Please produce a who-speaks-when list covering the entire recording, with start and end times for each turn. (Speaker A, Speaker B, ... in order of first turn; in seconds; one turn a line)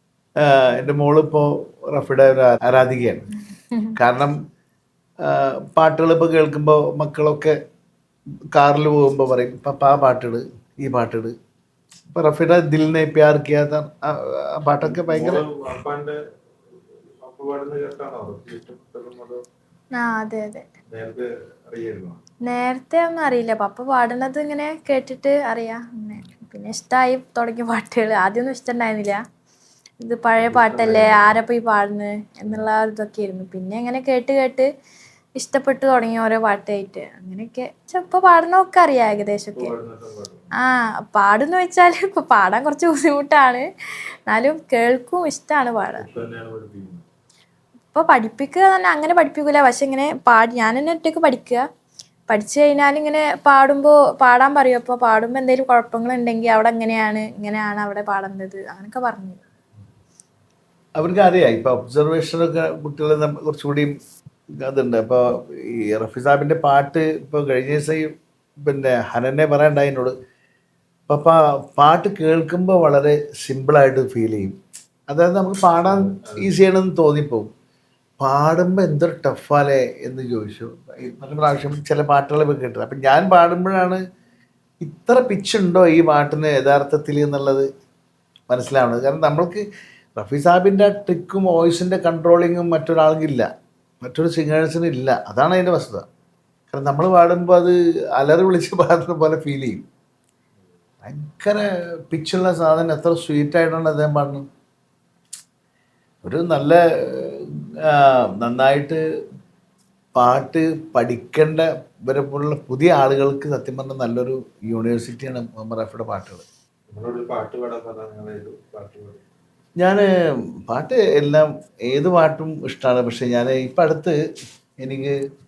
Speaker A: 0.4-3.3
Speaker A: 4.0-4.4
Speaker A: 5.2-7.6
Speaker A: 8.6-11.3
Speaker A: 12.2-15.4
Speaker B: 14.8-16.2
Speaker B: 17.2-19.4
Speaker C: 20.0-20.6
Speaker B: 20.9-22.2
Speaker C: 22.4-29.2
Speaker C: 30.0-34.7
Speaker B: 30.4-31.4
Speaker C: 35.4-39.7
Speaker B: 39.6-40.5
Speaker C: 40.6-43.7
Speaker C: 44.3-46.0
Speaker B: 46.0-47.0
Speaker C: 47.9-51.6
Speaker C: 52.3-59.4
Speaker A: 61.0-63.9
Speaker A: 64.6-68.1
Speaker A: 68.6-70.2
Speaker A: 71.1-74.6
Speaker A: 75.1-77.5
Speaker B: 75.8-76.5
Speaker A: 78.2-84.0
Speaker A: 84.8-87.7
Speaker A: 88.5-89.7
Speaker A: 90.2-93.5
Speaker A: 94.0-96.1
Speaker A: 96.7-99.9
Speaker A: 101.0-104.5
Speaker A: 106.2-109.0
Speaker A: 110.2-116.5
Speaker B: 116.9-119.2
Speaker A: 119.8-120.1
Speaker A: 120.7-124.2
Speaker A: 124.8-125.2